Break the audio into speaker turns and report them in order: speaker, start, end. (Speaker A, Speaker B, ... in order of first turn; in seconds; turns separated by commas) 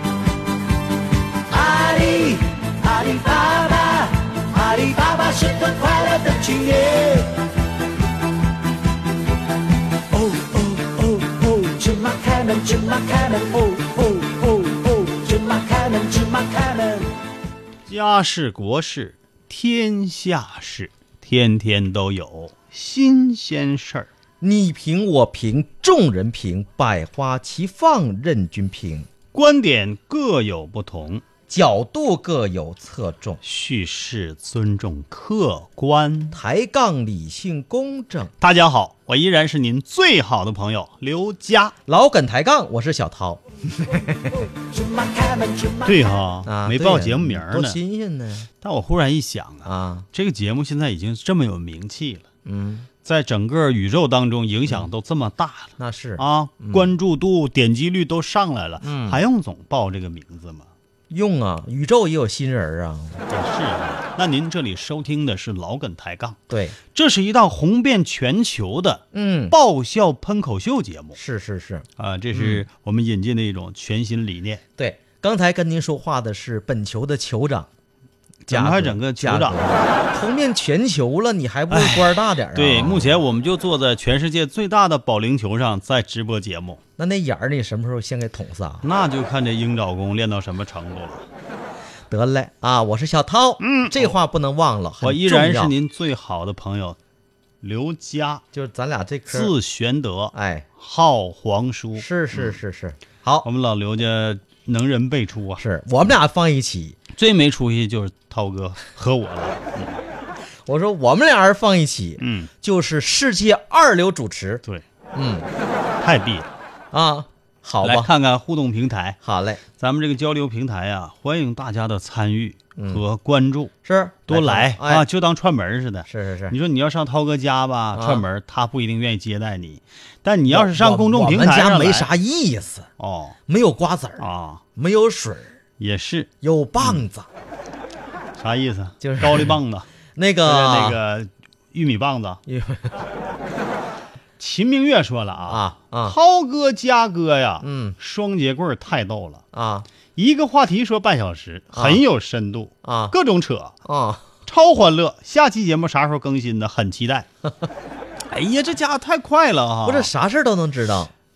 Speaker A: 1.5-7.3, Speaker A: 10.1-17.1, Speaker B: 17.9-24.1, Speaker C: 24.4-29.1, Speaker B: 29.3-31.2, Speaker C: 31.5-33.4, Speaker B: 33.4-36.4, Speaker C: 36.3-38.3, Speaker B: 38.4-41.7, Speaker C: 41.9-44.4, Speaker A: 44.7-46.1, Speaker B: 45.8-47.8, Speaker C: 46.5-48.5, Speaker B: 48.6-52.3, Speaker C: 49.6-50.0, Speaker C: 52.4-52.9, Speaker B: 53.0-60.7, Speaker C: 55.8-56.9, Speaker C: 58.8-59.2, Speaker C: 61.1-63.2, Speaker B: 63.3-66.4, Speaker C: 66.5-66.8, Speaker B: 66.9-71.2, Speaker C: 69.1-69.5, Speaker C: 71.2-72.6, Speaker B: 72.0-74.6, Speaker C: 74.8-77.7, Speaker B: 78.5-79.6, Speaker C: 78.5-83.2, Speaker B: 81.7-86.8, Speaker C: 87.0-88.8, Speaker B: 88.8-91.2, Speaker C: 92.1-95.7, Speaker B: 93.6-94.1, Speaker B: 95.0-97.0, Speaker B: 97.6-98.4, Speaker C: 98.5-99.5, Speaker B: 99.3-102.5, Speaker C: 100.3-100.7, Speaker C: 102.0-103.5, Speaker B: 103.4-105.6, Speaker C: 105.6-107.0, Speaker B: 107.1-110.0, Speaker C: 110.7-114.6, Speaker B: 112.2-112.5, Speaker C: 115.1-115.5, Speaker B: 116.0-116.5, Speaker C: 116.9-118.1, Speaker B: 117.8-119.2, Speaker C: 119.2-119.6, Speaker B: 119.8-123.7, Speaker C: 122.8-123.0, Speaker C: 123.8-125.0, Speaker B: 124.3-132.1, Speaker C: 126.1-126.5, Speaker C: 127.9-128.2, Speaker C: 130.5-132.9, Speaker B: 133.0-133.3, Speaker C: 133.5-135.6, Speaker B: 134.2-134.6, Speaker B: 135.8-136.3, Speaker C: 136.4-137.3, Speaker B: 138.4-139.9, Speaker C: 139.0-139.6, Speaker C: 140.1-141.0, Speaker B: 140.4-142.4, Speaker C: 142.5-142.9, Speaker B: 144.4-149.4, Speaker C: 145.5-146.2, Speaker C: 147.6-147.9, Speaker C: 149.5-149.9, Speaker B: 150.2-153.7, Speaker C: 151.7-152.0, Speaker C: 152.8-153.1, Speaker C: 153.8-154.2, Speaker B: 154.4-157.3, Speaker B: 158.3-160.1, Speaker C: 159.8-161.1